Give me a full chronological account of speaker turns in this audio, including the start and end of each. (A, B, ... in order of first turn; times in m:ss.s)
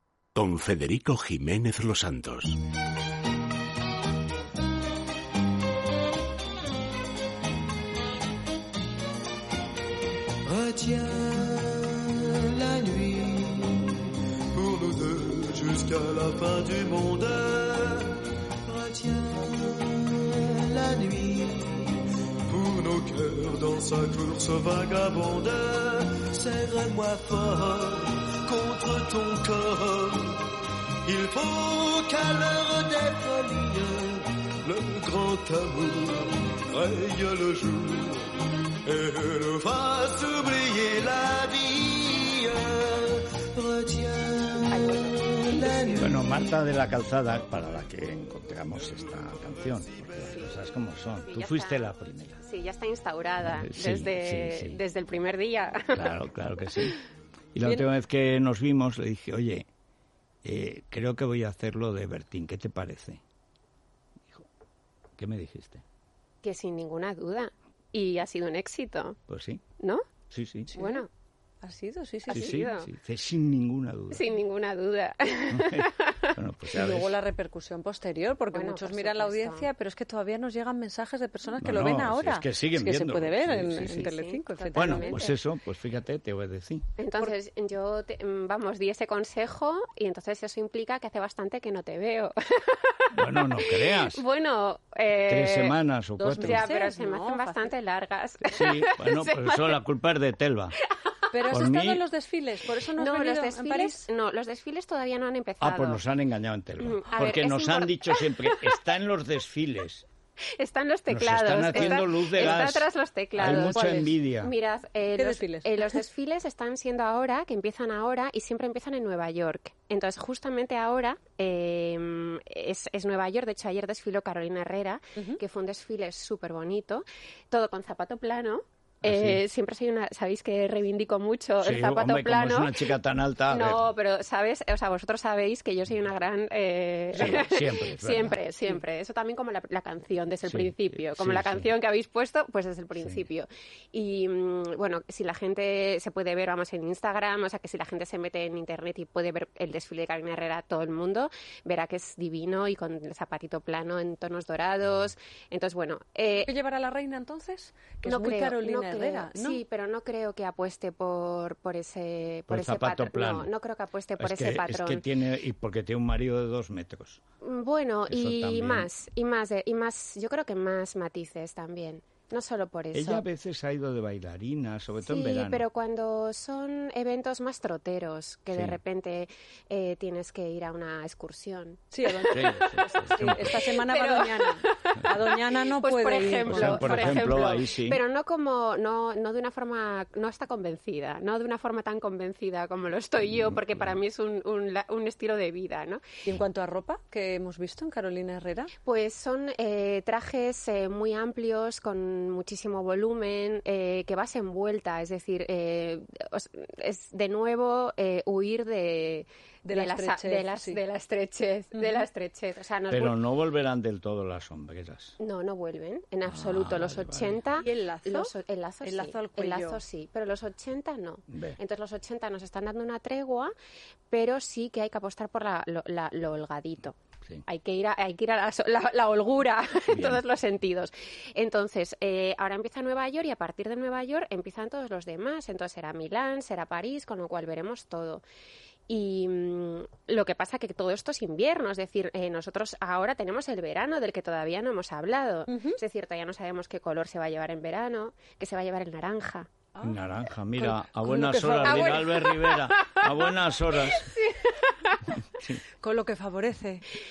0:00.3-0:02.6 A
0:10.4-0:46.1 B
0:44.7-0:46.1 C
0:46.0-0:52.4 D
0:50.2-0:50.5 C
0:51.2-0:56.1 C
0:53.4-0:54.8 D
0:55.9-0:57.0 D
0:57.5-0:59.7 D
1:00.4-1:03.2 D
1:05.2-1:05.8 D
1:06.4-1:09.2 C
1:09.3-1:09.6 D
1:09.8-1:10.0 C
1:10.3-1:10.7 D
1:10.7-1:11.1 C
1:10.7-1:11.0 E
1:11.6-1:12.7 E
1:12.3-1:12.9 C
1:12.3-1:14.3 D
1:14.1-1:16.3 C
1:15.5-1:17.1 D
1:16.7-1:25.3 E
1:18.5-1:19.7 C
1:21.6-1:24.1 D
1:23.7-1:25.3 C
1:24.7-1:26.8 D
1:27.0-1:35.8 C
1:33.1-1:34.2 D
1:35.3-1:36.7 D
1:36.2-1:37.7 E
1:36.4-1:39.8 C
1:38.5-1:40.8 D
1:40.8-1:41.6 C
1:41.3-1:44.1 E
1:41.4-1:42.0 D
1:43.0-1:46.0 C
1:45.6-1:50.0 D
1:46.8-1:48.8 C
1:50.6-2:12.9 C
1:51.1-1:54.5 D
1:51.7-1:52.7 E
1:53.4-1:54.2 E
1:55.1-1:56.0 E
2:09.0-2:09.4 D
2:11.6-2:13.9 D
2:13.5-2:36.5 C
2:17.1-2:18.4 D
2:17.2-2:17.4 E
2:20.4-2:21.7 D
2:23.0-2:23.2 D
2:36.3-2:39.6 E
2:38.0-2:45.1 C
2:42.5-2:43.5 D
2:44.2-2:47.2 D
2:47.4-2:53.2 C
2:48.1-2:48.9 D
2:52.9-2:55.6 D
2:55.0-3:16.0 C
2:58.5-2:58.8 D
3:01.9-3:07.6 E
3:02.3-3:03.6 D
3:06.5-3:08.0 D
3:16.2-3:18.7 E
3:18.8-3:33.2 C
3:29.6-3:30.8 E
3:32.9-3:35.2 D
3:35.2-3:43.5 C
3:36.2-3:37.4 D
3:37.6-3:39.8 E
3:41.3-3:41.6 D
3:44.1-3:58.2 C
3:49.9-3:50.2 D
3:58.9-4:09.5 C
4:05.5-4:05.8 E
4:09.8-4:14.1 D
4:10.6-4:12.2 E
4:11.5-4:15.0 C
4:15.3-4:15.6 D
4:15.8-4:17.0 E